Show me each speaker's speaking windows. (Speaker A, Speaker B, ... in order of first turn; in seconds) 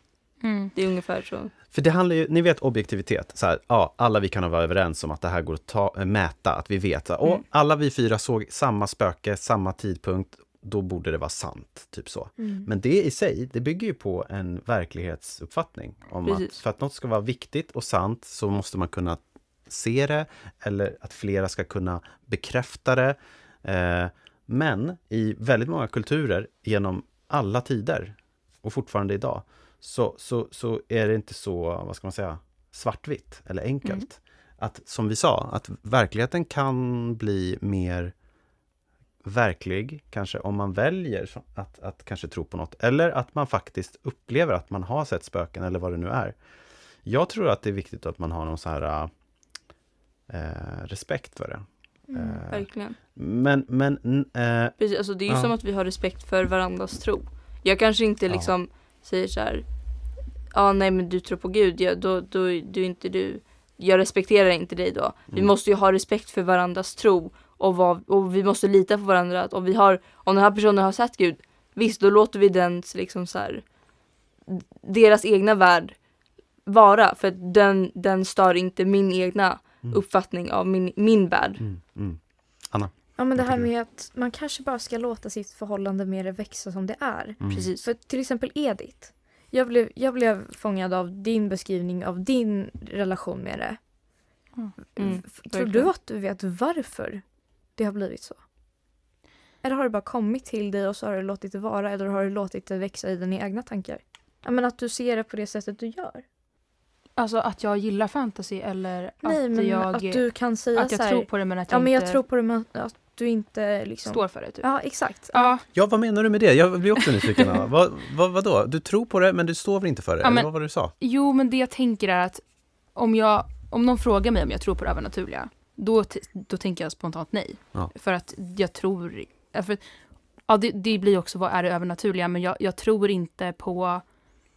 Speaker A: 0.4-0.7, 107.2-112.2, 114.1-115.6, 120.2-134.1
Speaker B: 0.7-1.5, 52.5-53.0, 54.8-59.7, 60.5-73.7, 74.5-76.0, 76.7-81.6, 87.5-87.8, 95.0-95.9
Speaker C: 1.7-38.1, 39.2-46.4, 47.0-49.1, 50.3-54.8, 55.3-55.5, 81.6-83.7, 87.4-87.7, 115.7-120.9
Speaker D: 12.4-12.7, 52.1-52.4, 83.2-93.8, 95.0-98.4, 99.6-106.2, 109.2-115.5